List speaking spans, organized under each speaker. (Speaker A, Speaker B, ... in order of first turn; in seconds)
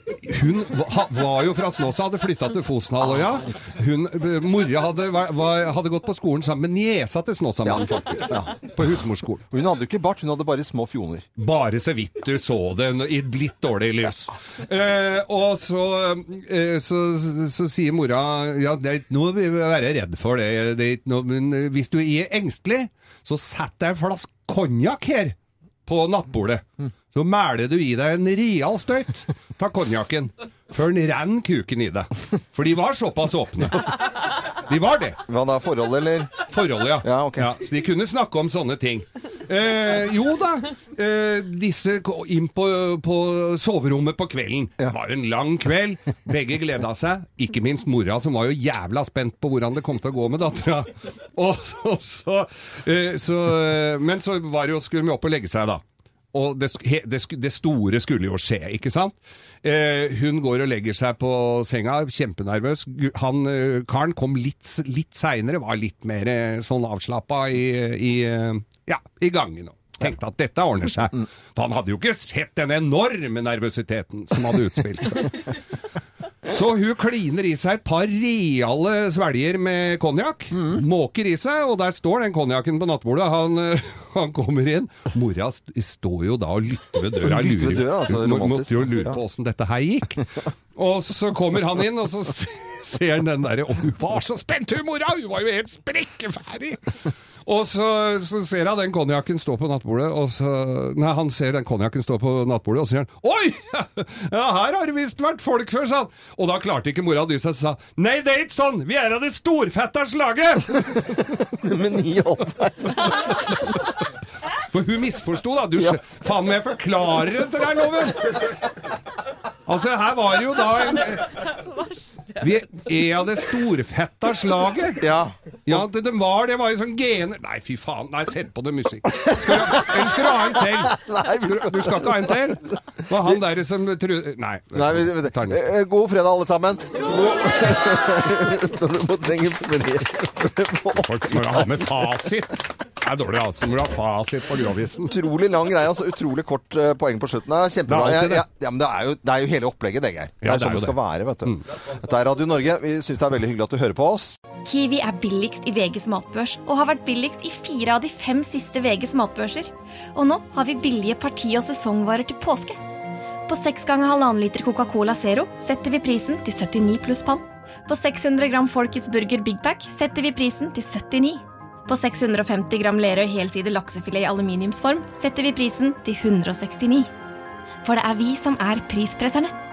Speaker A: 0.1-9.5, 11.4-35.2, 36.4-75.6, 76.5-111.2, 113.0-114.0, 114.7-118.4, 119.7-121.6, 122.3-125.1, 125.7-135.7, 141.0-145.2, 147.9-148.5, 150.4-151.6
Speaker B: 3.0-3.6, 7.7-8.6, 9.5-11.3, 35.3-36.3, 37.0-37.5, 87.2-89.2, 110.9-113.2, 125.0-125.8, 129.1-132.4, 134.7-142.1, 145.1-154.4
Speaker C: 154.7-162.8, 163.5-177.1, 177.8-179.5